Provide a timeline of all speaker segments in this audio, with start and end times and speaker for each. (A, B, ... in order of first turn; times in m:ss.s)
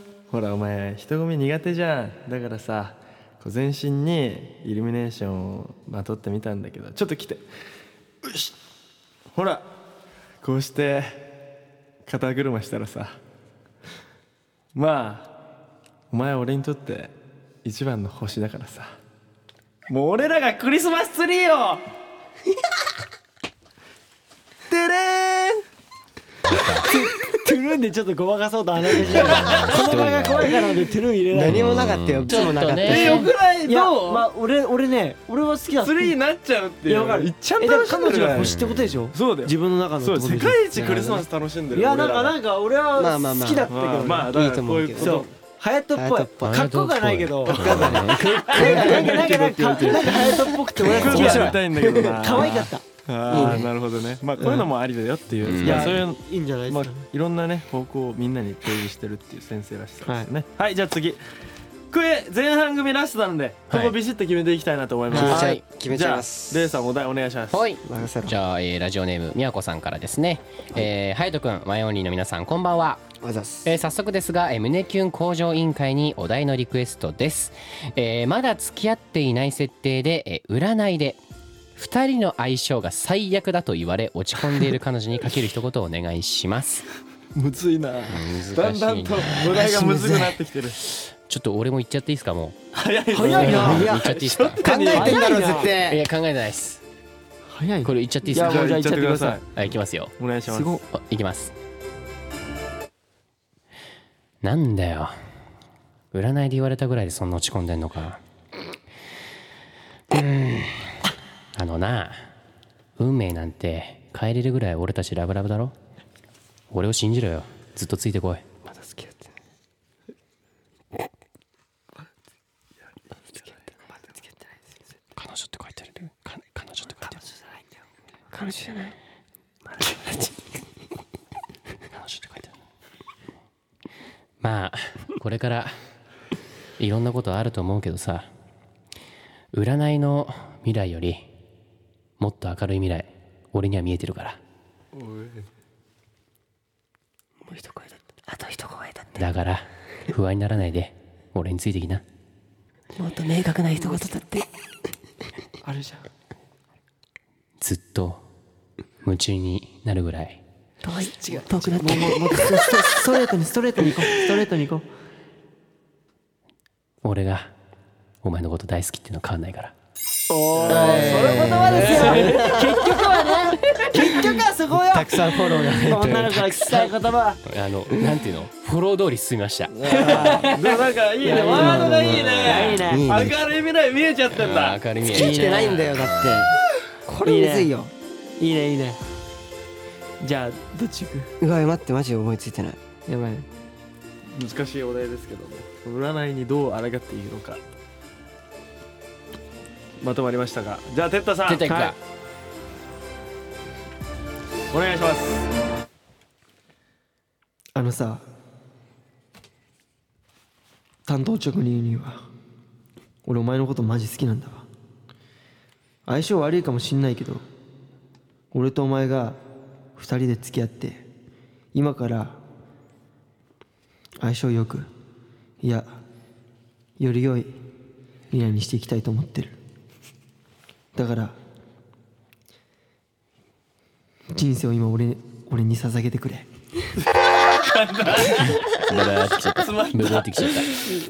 0:00.3-0:07.4 A
0:08.2-0:08.5 A
0:09.3-0:09.7 A
0:10.4-0:11.3 A
0:12.0-0:13.2 A
0:14.7-0:15.3 A
0:16.1-0:17.1 A
0:17.6-0:18.9 A
0:19.9-0:21.8 A
0:24.7-0:25.6 A
0:26.5-0:26.9 B
0:26.8-0:31.6 C
0:29.0-0:30.6 B
0:31.3-0:33.3 D
0:31.5-0:33.3 B
0:32.8-0:34.2 A
0:33.6-0:36.2 C
0:35.8-0:38.6 A
0:36.8-0:44.3 C
0:38.4-0:39.0 B
0:39.1-0:42.4 A
0:42.9-0:45.2 D
0:43.7-0:45.3 A
0:45.0-0:53.6 C
0:45.9-0:46.7 D
0:46.4-0:48.9 B
0:47.5-0:50.2 A
0:47.5-0:52.6 D
0:51.0-1:01.2 A
0:53.3-0:53.7 D
0:54.4-0:54.7 C
0:55.4-0:56.0 B
0:55.6-0:57.0 C
1:01.9-1:07.6 A
1:03.7-1:04.0 B
1:05.1-1:06.7 D
1:05.1-1:05.4 C
1:05.2-1:05.6 B
1:07.5-1:13.0 B
1:07.8-1:08.4 D
1:13.2-1:13.7 D
1:13.6-1:21.2 B
1:21.8-1:26.9 B
1:27.3-1:30.8 A
1:28.1-1:29.7 B
1:31.0-1:32.6 B
1:32.7-1:35.2 A
1:33.1-1:34.0 C
1:33.2-1:36.8 B
1:34.6-1:36.0 D
1:34.6-1:35.7 C
1:37.5-1:39.4 C
1:37.8-1:38.8 B
1:38.3-1:39.5 A
1:39.5-1:40.1 B
1:40.2-1:40.8 A
1:40.5-1:40.8 C
1:40.9-1:41.5 B
1:44.4-1:45.2 B
1:46.1-1:48.2 B
1:50.1-1:51.0 B
1:51.5-1:52.2 B
1:53.0-1:55.7 B
1:56.7-1:58.4 B
1:58.7-1:59.2 D
2:05.2-2:07.2 B
2:08.3-2:09.0 D
2:09.8-2:10.3 D
2:11.9-2:12.5 B
2:14.4-2:15.7 B
2:16.8-2:18.3 B
2:19.5-2:21.3 B
2:22.2-2:24.4 B
2:24.9-2:25.4 A
2:27.4-2:29.2 D
2:29.2-2:32.0 B
2:32.9-2:34.5 D
2:35.6-2:36.0 C
2:37.6-2:38.2 B
2:39.0-2:40.4 B
2:40.8-2:42.7 D
2:41.2-2:44.8 C
2:47.0-2:47.5 B
2:48.2-2:49.7 B
2:50.3-2:57.4 C
2:50.5-2:51.5 A
2:50.6-2:52.9 D
2:51.0-2:54.4 B
2:54.7-2:56.8 D
2:57.4-3:00.3 B
2:59.8-3:04.8 A
2:59.9-3:03.1 C
3:01.2-3:03.4 D
3:04.3-3:06.5 B
3:05.0-3:07.9 D
3:05.1-3:05.8 C
3:07.2-3:09.0 C
3:10.2-3:11.3 C
3:11.4-3:12.8 D
3:13.1-3:13.5 C
3:14.3-3:17.6 A
3:20.0-3:21.7 A
3:21.5-3:22.0 B
3:21.6-3:21.9 C
3:24.7-3:25.5 A
3:27.7-3:28.2 C
3:31.0-3:32.2 C
3:33.2-3:34.6 C
3:36.0-3:37.4 C
3:38.5-3:39.4 C
3:40.0-3:41.0 C
3:41.7-3:42.4 C
3:44.2-3:44.9 C
3:45.6-3:45.9 C
3:47.0-3:47.5 C
3:48.3-3:49.6 C
3:50.9-3:51.4 C
3:54.3-3:56.5 C
3:57.1-3:58.8 A
3:58.7-4:01.0 B
3:59.5-4:00.8 A